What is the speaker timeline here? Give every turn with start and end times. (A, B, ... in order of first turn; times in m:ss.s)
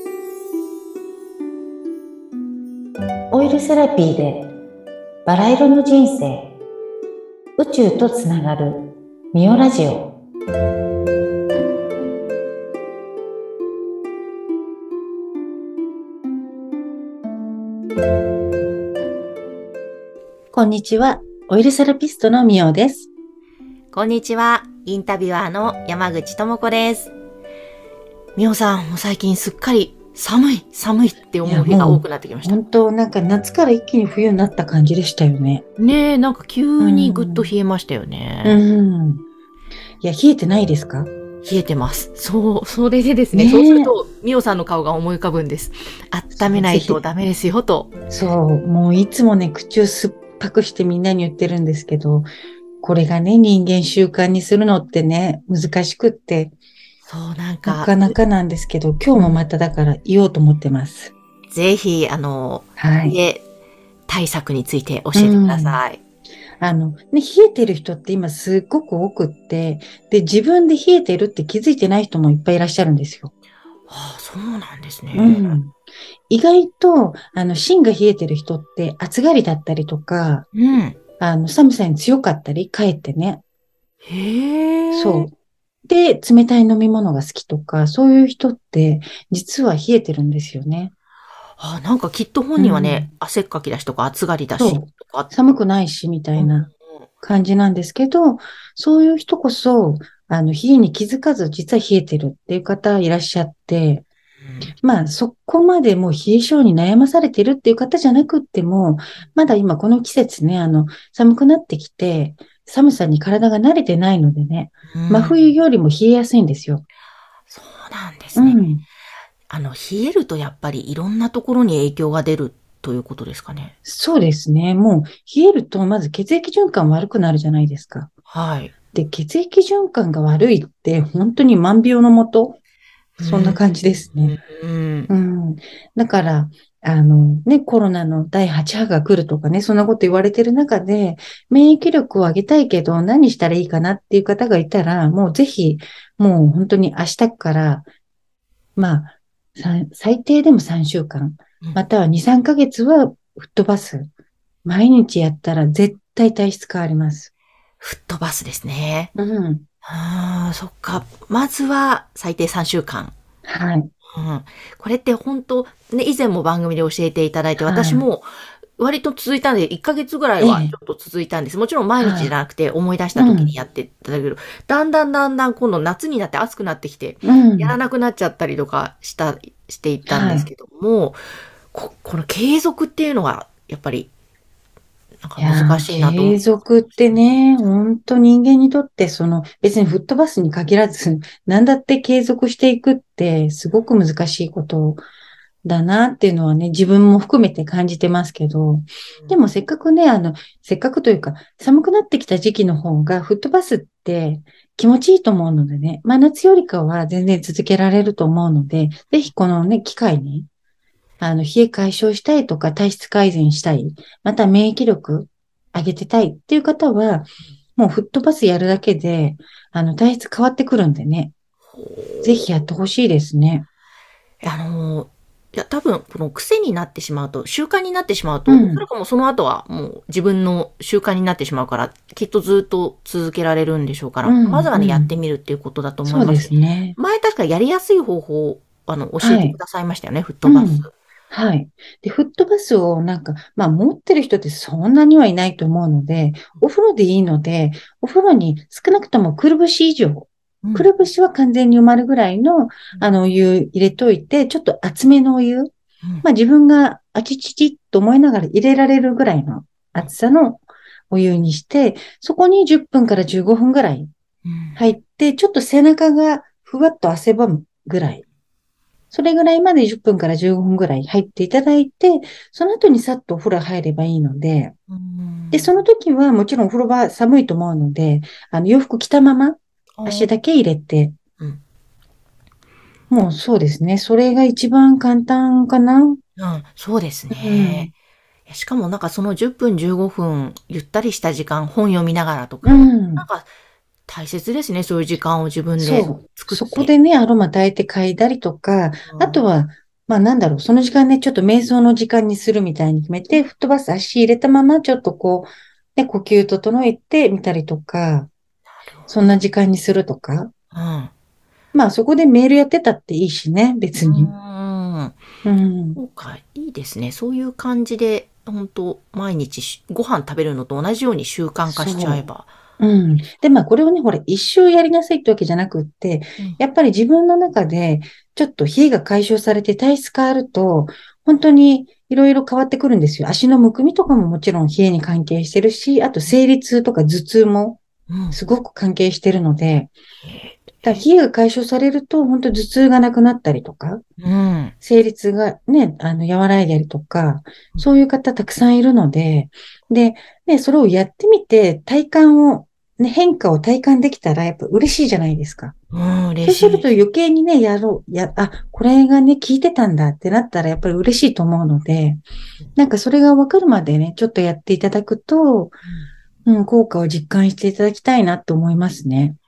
0:03.3-0:04.5 A
0:05.2-0:06.5 A
0:07.6-0:10.1 A
0:20.5-0:23.1 A
0:23.9-0:27.1 B
0:28.4-0:32.6 B
0:31.4-0:35.6 A
0:35.8-0:38.6 B
0:36.8-0:37.5 A
0:38.4-0:39.2 A
0:40.0-0:41.1 A
0:41.4-0:47.9 B
0:43.3-0:43.9 A
0:46.3-0:47.0 A
0:48.1-0:52.3 A
0:52.8-0:56.5 A
0:57.0-0:58.1 B
0:57.6-1:01.1 A
1:01.5-1:03.4 B
1:02.8-1:03.2 A
1:04.1-1:06.0 B
1:05.1-1:05.8 A
1:06.6-1:13.3 A
1:13.9-1:15.6 B
1:15.1-1:15.7 A
1:16.3-1:20.5 A
1:20.5-1:21.0 B
1:21.2-1:23.4 A
1:24.0-1:25.3 B
1:24.9-1:25.3 A
1:25.9-1:30.9 A
1:31.6-1:35.3 B
1:32.6-1:33.1 A
1:34.6-1:36.7 A
1:36.4-1:36.7 B
1:37.2-1:44.0 A
1:44.8-1:56.8 A
1:54.9-1:55.4 B
1:57.5-1:58.6 B
1:58.4-1:58.8 A
1:59.5-2:03.7 B
2:03.8-2:08.1 A
2:08.3-2:08.7 B
2:08.9-2:12.6 A
2:13.2-2:13.6 B
2:13.2-2:14.4 A
2:14.2-2:15.1 B
2:15.1-2:27.8 A
2:28.8-2:34.1 A
2:34.6-2:37.3 A
2:37.8-2:39.1 B
2:39.1-2:39.6 A
2:39.8-2:43.1 B
2:43.4-2:43.9 A
2:44.1-3:01.2 B
2:47.6-2:48.0 A
2:50.4-2:50.7 A
2:52.0-2:52.3 A
2:53.2-2:53.5 A
2:57.2-2:57.8 A
3:00.1-3:00.5 A
3:01.7-3:04.1 B
3:05.2-3:06.4 B
3:05.4-3:15.0 A
3:15.6-3:30.5 A
3:31.2-3:41.3 A
3:41.7-3:42.5 B
3:42.2-3:43.6 A
3:44.4-4:00.9 B
3:48.5-3:48.8 A
3:54.2-3:55.1 A
3:56.0-3:57.0 A
3:59.2-3:59.6 A
4:00.4-4:15.7 A
4:10.6-4:10.9 B
4:16.2-4:24.1 A
4:24.4-4:24.8 B
4:24.8-4:28.2 A
4:29.1-4:34.7 A
4:34.9-4:35.7 B
4:35.5-4:41.1 A
4:40.0-4:40.3 B
4:43.1-4:46.2 A
4:46.4-4:47.9 B
4:47.3-4:47.9 A
4:48.5-4:53.5 B
4:52.6-4:53.2 A
4:54.1-4:56.9 B
4:55.8-5:08.3 A
4:59.1-4:59.4 B
5:08.9-5:09.4 B
5:09.1-5:10.5 A
5:10.7-5:11.1 B
5:11.7-5:14.3 A
5:14.0-5:15.2 B
5:15.4-5:16.0 A
5:16.0-5:22.5 B
5:21.7-5:22.2 A
5:22.8-5:39.9 A
5:38.1-5:38.4 B
5:40.2-5:41.0 B
5:40.8-5:44.0 A
5:44.2-5:44.7 B
5:44.8-5:55.7 A
5:55.9-5:56.8 B
5:56.4-6:02.2 A
6:02.8-6:05.8 A
6:06.4-6:09.4 A